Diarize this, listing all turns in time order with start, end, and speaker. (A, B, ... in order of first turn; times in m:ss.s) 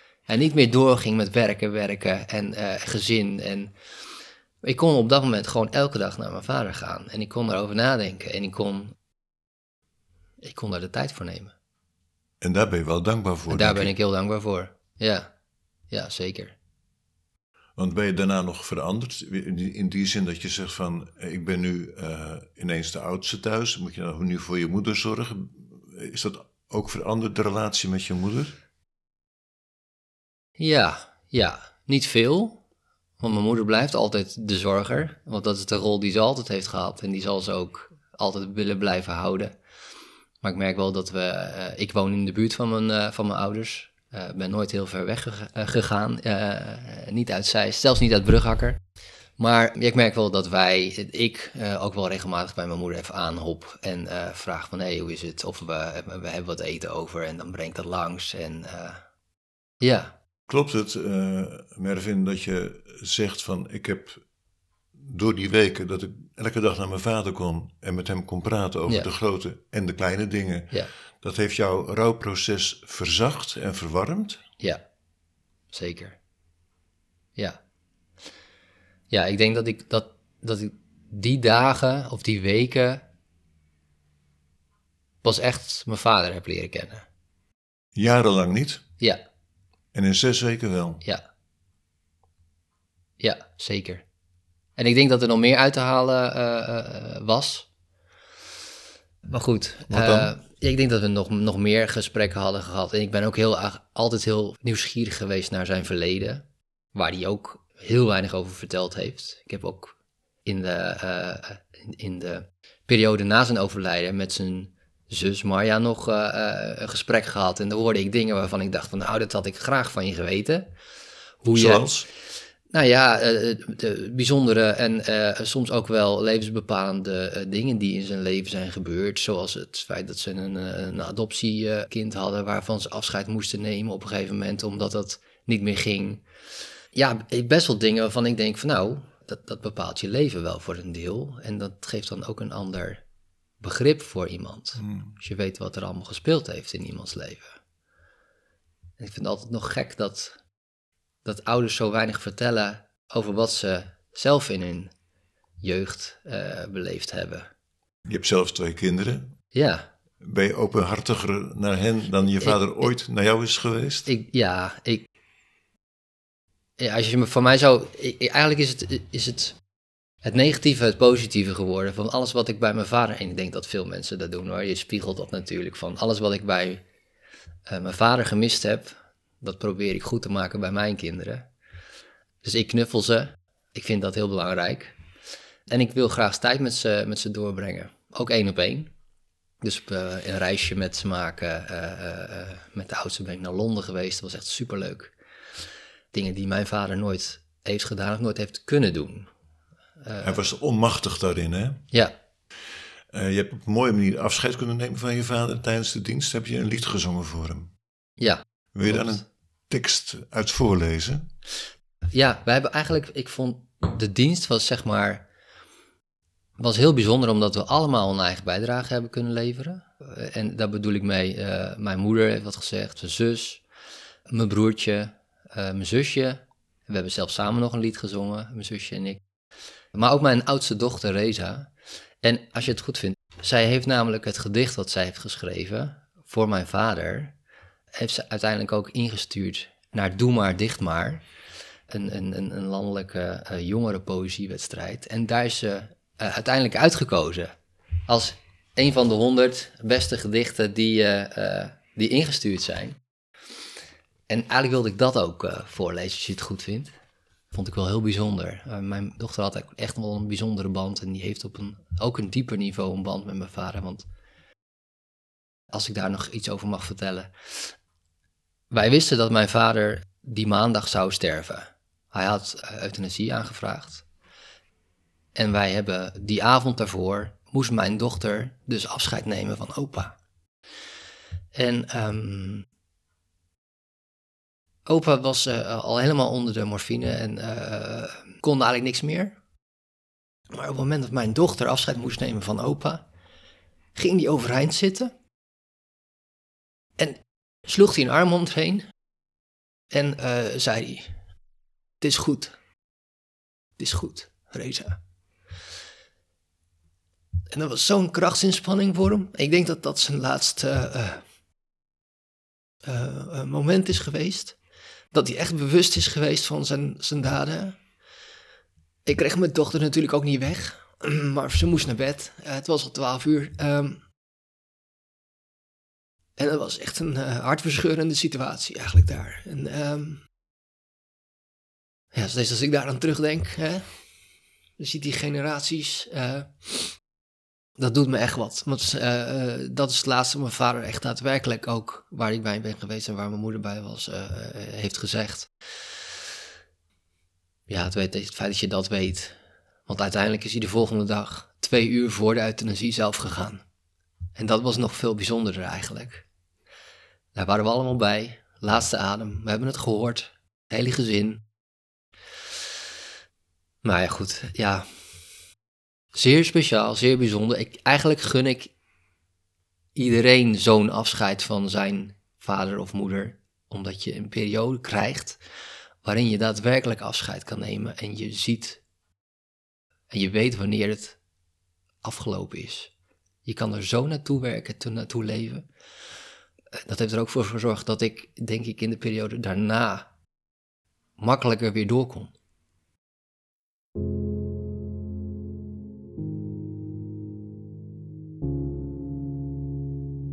0:00.3-0:03.7 A
0:04.6-0:09.0 A
0:10.4-0:11.5 A
0:12.4-0:13.9 B
0:13.5-0:15.3 A
0:15.9-0:16.6 A
0:17.8-0:28.6 B
0:30.6-0:32.6 A
0:33.2-0:39.6 A
0:40.4-0:48.8 A
0:49.4-0:59.0 A
0:59.8-1:00.2 A
1:00.5-1:04.2 B
1:05.0-1:14.4 B
1:15.7-1:16.2 A
1:19.1-1:23.0 A
1:25.2-1:27.1 A
1:28.0-1:28.8 B
1:29.9-1:31.0 B
1:33.2-1:34.0 A
1:34.8-1:37.7 A
1:39.3-2:00.7 A
1:39.9-1:40.3 B
2:01.4-2:01.9 A
2:01.5-2:02.1 B
2:02.7-2:16.2 A
2:16.9-2:23.0 A
2:23.6-2:27.6 A
2:24.8-2:25.1 B
2:29.0-2:30.4 A
2:31.2-2:34.9 A
2:35.6-2:37.5 A
2:38.1-2:39.3 B
2:39.5-2:39.9 A
2:40.2-2:44.1 B
2:42.4-2:42.9 A
2:44.1-2:45.1 A
2:46.8-2:49.6 A
2:50.2-2:56.8 A
2:57.7-3:01.5 A
3:02.4-3:05.0 A
3:05.7-3:08.9 A
3:09.6-3:15.2 A
3:16.1-3:19.3 A
3:20.0-3:20.4 A
3:20.2-3:21.8 B
3:23.1-3:27.7 B
3:28.2-3:29.2 A
3:28.7-3:31.3 B
3:32.1-3:35.3 A
3:36.6-3:43.6 A
3:44.3-3:49.2 A
3:50.0-3:57.4 A
3:58.0-4:01.2 A
4:01.9-4:07.5 A
4:08.1-4:13.0 A
4:14.3-4:16.9 A
4:17.5-4:24.1 A
4:25.7-4:27.7 A
4:28.7-4:34.0 A
4:35.4-4:40.2 A
4:41.6-4:42.6 A
4:44.9-4:49.4 A
4:50.5-4:53.0 A
4:54.0-4:55.1 A
4:57.0-4:58.9 A
4:59.9-5:01.2 A
5:02.0-5:02.6 A
5:03.8-5:05.0 A
5:07.5-5:11.2 A
5:12.8-5:14.6 A
5:15.1-5:17.8 A
5:19.0-5:24.0 A
5:26.4-5:30.2 A
5:32.1-5:34.0 A
5:34.8-5:37.0 A
5:37.8-5:45.5 A
5:47.7-5:53.6 A
5:54.4-5:56.3 A
5:57.4-6:01.4 A
6:03.8-6:04.9 A
6:06.1-6:08.7 A
6:10.0-6:15.4 A
6:16.0-6:18.8 A
6:20.1-6:21.2 A
6:22.0-6:22.9 A
6:23.4-6:25.7 A
6:26.8-6:30.1 A
6:31.2-6:32.3 A